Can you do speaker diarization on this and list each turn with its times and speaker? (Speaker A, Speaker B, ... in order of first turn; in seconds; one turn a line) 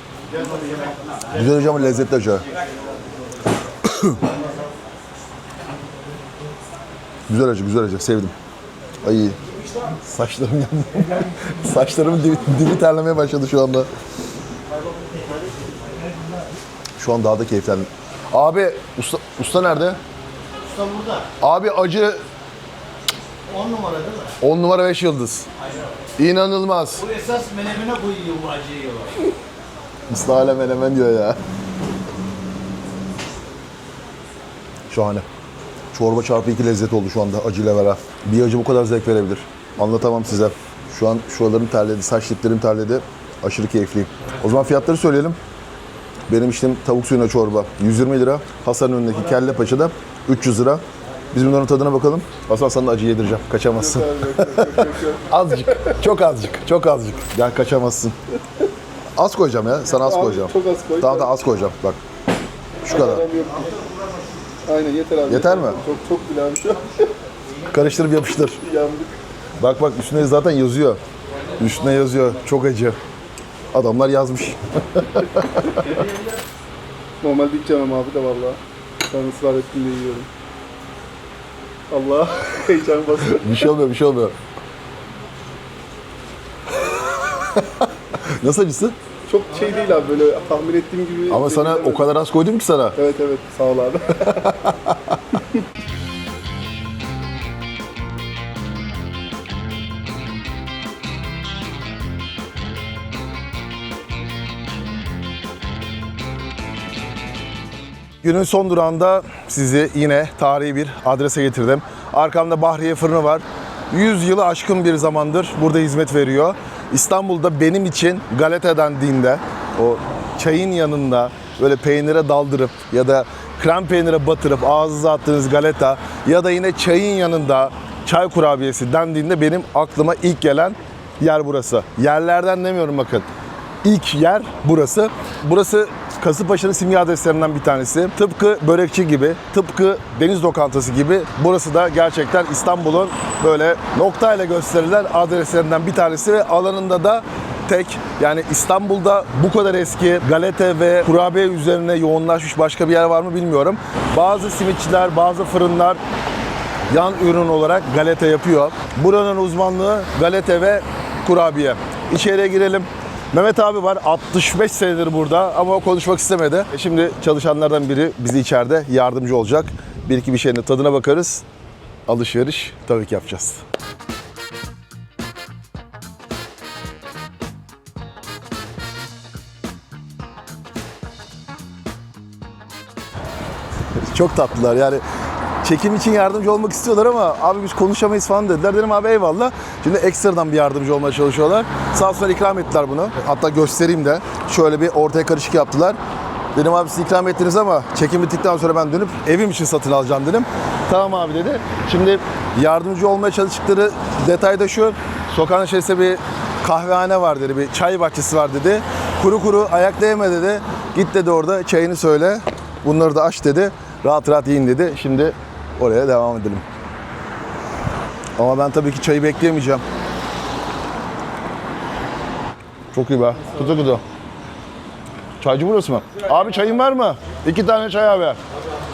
Speaker A: 0.2-4.8
Speaker B: 1.3-2.5
Speaker B: 3.8-4.2
Speaker B: 7.3-8.3
Speaker B: 9.0-9.4
Speaker B: 10.0-13.9
Speaker A: 14.7-16.2
Speaker B: 17.0-20.0
Speaker A: 20.6-21.3
Speaker B: 21.4-22.2
Speaker A: 23.5-24.4
Speaker B: 24.4-25.5
Speaker A: 25.6-26.1
Speaker B: 26.2-27.0
Speaker A: 27.0-29.2
Speaker B: 30.1-31.4
Speaker B: 34.9-35.2
Speaker B: 35.9-45.4
Speaker B: 46.3-58.1
Speaker C: 53.7-55.9
Speaker B: 59.1-62.0
Speaker C: 59.9-61.3
Speaker B: 62.8-63.2
Speaker C: 62.8-63.7
Speaker C: 64.7-67.1
Speaker B: 65.3-65.8
Speaker B: 67.7-68.6
Speaker C: 68.5-69.2
Speaker B: 69.6-71.0
Speaker B: 71.6-73.0
Speaker B: 73.7-75.9
Speaker C: 77.2-80.3
Speaker C: 81.9-83.7
Speaker B: 83.3-84.3
Speaker B: 86.9-89.0
Speaker C: 89.2-92.1
Speaker B: 91.3-93.0
Speaker C: 93.0-94.6
Speaker B: 94.3-95.0
Speaker B: 108.2-133.2
Speaker B: 133.8-156.0
Speaker B: 156.9-171.4
Speaker B: 172.1-173.6
Speaker B: 184.0-185.0
Speaker B: 185.6-196.0
Speaker B: 196.5-216.6
Speaker B: 218.4-219.8
Speaker B: 222.9-224.0
Speaker B: 225.4-228.4